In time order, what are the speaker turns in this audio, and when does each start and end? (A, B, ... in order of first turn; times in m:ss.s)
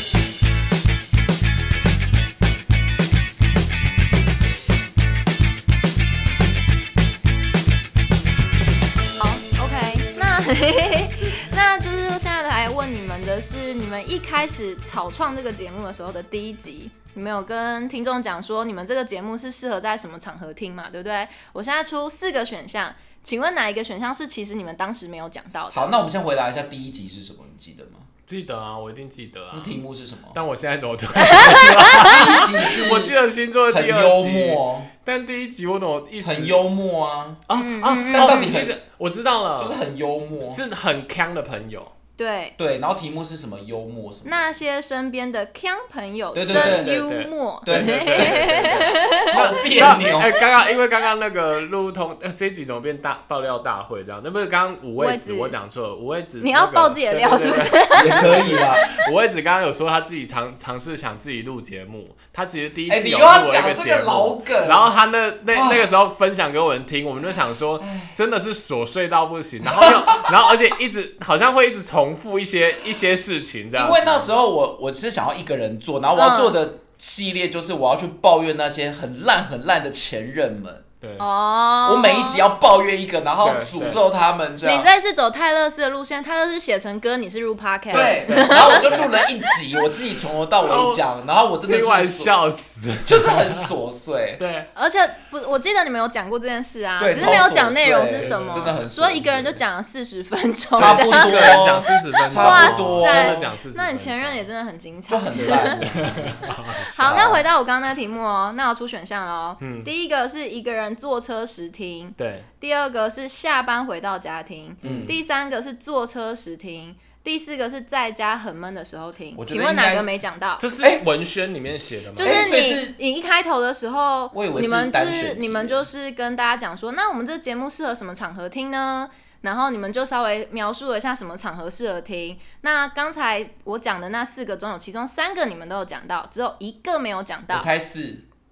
0:09.2-0:25.9 A
0:25.7-0:28.1 B
0:28.3-0:29.8 C
0:29.5-0:30.4 B
0:30.3-0:36.6 C
0:31.2-0:32.1 A
0:31.9-0:33.2 B
0:33.7-0:34.9 B
0:36.2-0:37.4 B
0:37.5-0:39.8 C
0:37.5-0:38.6 A
0:38.1-0:38.8 B
0:39.6-0:40.6 B
0:40.5-0:41.9 C
0:42.2-0:42.6 A
0:42.6-0:44.5 B
0:44.2-0:49.7 A
0:46.3-0:47.0 B
0:46.4-1:14.3 C
0:47.6-0:50.3 B
0:55.0-0:55.6 A
0:56.4-0:59.1 A
0:57.9-0:58.8 B
1:02.9-1:04.9 B
1:05.5-1:05.9 B
1:07.8-1:08.1 B
1:09.6-1:10.6 B
1:13.7-1:20.8 B
1:16.2-1:16.6 A
1:21.0-1:21.2 C
1:21.2-1:22.4 A
1:21.8-1:24.9 B
1:23.4-1:24.0 C
1:24.6-1:29.6 A
1:27.9-1:29.1 C
1:27.9-1:32.3 B
1:30.6-1:31.0 C
1:31.6-1:33.7 C
1:33.0-1:34.4 B
1:34.4-1:34.7 C
1:34.7-1:45.8 A
1:37.0-1:39.5 B
1:37.3-1:38.9 C
1:40.7-1:44.5 C
1:40.7-1:43.5 B
1:45.1-1:46.4 B
1:45.3-1:47.4 C
1:46.9-1:47.4 B
1:46.9-2:00.6 A
1:49.6-1:49.9 C
1:52.2-1:52.5 C
1:54.8-1:55.1 C
1:54.8-1:55.2 B
1:59.3-2:00.1 B
2:00.6-2:02.4 C
2:00.8-2:01.0 B
2:02.2-2:17.7 A
2:02.2-2:03.0 B
2:04.3-2:05.9 B
2:17.5-2:18.2 B